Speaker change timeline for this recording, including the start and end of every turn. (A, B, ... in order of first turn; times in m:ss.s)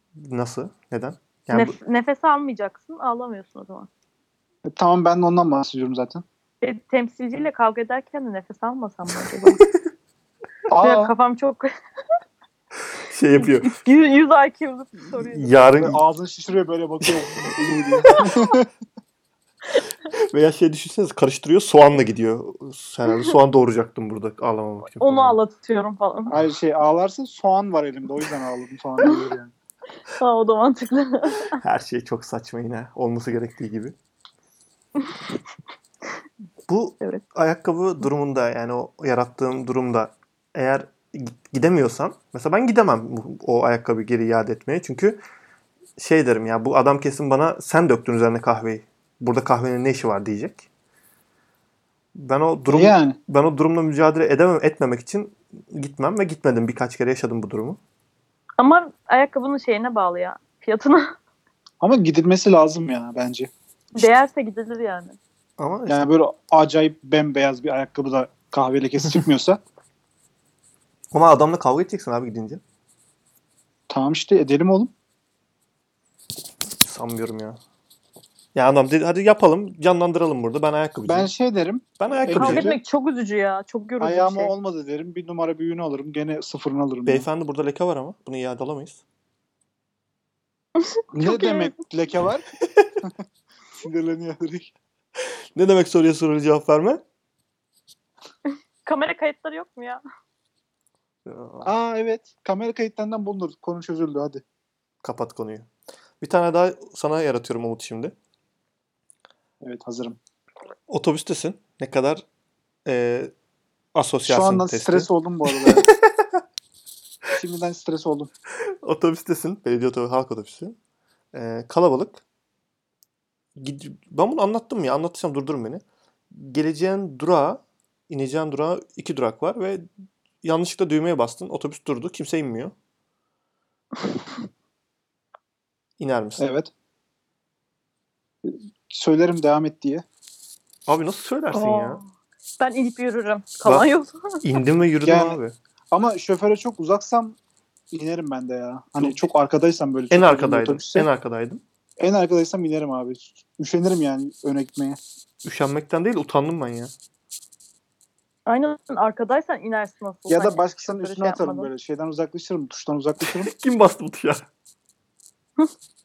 0:00.2-0:01.8 A
0:01.5-0:03.9 B
0:04.7-0:06.2 C
0:06.6-0:09.6 B
0:10.7-0:11.1 C
0:10.8-0:11.7 B
0:13.0-0:13.8 A
0:13.4-0:15.6 B
0:15.2-0:16.0 A
0:15.8-0:18.7 C
0:17.4-0:18.2 A
0:20.1-0:25.4 A
0:25.0-0:26.3 B
0:26.3-0:29.5 C
0:30.1-0:31.6 B
0:31.5-0:34.0 A
0:36.7-0:45.2 A
0:46.0-0:50.7 A
0:52.2-0:57.8 A
0:52.7-0:53.2 C
0:58.6-1:01.2 B
1:01.8-1:03.5 C
1:04.0-1:05.2 B
1:05.6-1:06.1 A
1:05.9-1:09.6 C
1:11.1-1:12.6 A
1:13.9-1:14.9 C
1:16.8-1:17.6 A
1:18.6-1:21.3 A
1:21.1-1:22.8 C
1:22.0-1:22.8 A
1:22.3-1:24.5 B
1:24.0-1:27.3 C
1:27.1-1:29.0 A
1:30.8-1:31.7 B
1:31.1-1:32.4 C
1:33.8-1:34.7 C
1:35.2-1:37.0 A
1:38.9-1:40.0 B
1:41.3-1:41.7 A
1:41.6-1:44.4 C
1:45.0-1:45.7 A
1:46.2-1:48.1 A
1:49.6-1:50.2 C
1:50.9-1:52.2 A
1:52.8-1:53.3 A
1:53.9-1:56.4 A
1:54.3-1:55.9 C
1:57.3-1:58.3 C
1:58.8-2:00.8 A
2:01.3-2:02.2 A
2:03.6-2:09.9 A
2:10.4-2:12.7 A
2:16.0-2:16.5 A
2:16.4-2:16.7 C
2:18.4-2:20.0 C
2:20.9-2:22.0 A
2:21.5-2:22.1 B
2:22.6-2:24.4 B
2:24.4-2:25.5 A
2:25.0-2:25.4 C
2:25.9-2:27.4 C
2:27.9-2:31.1 C
2:30.1-2:31.6 A
2:32.0-2:35.0 C
2:35.4-2:36.9 A
2:38.5-2:41.7 B
2:40.3-2:43.5 C
2:43.4-2:44.5 A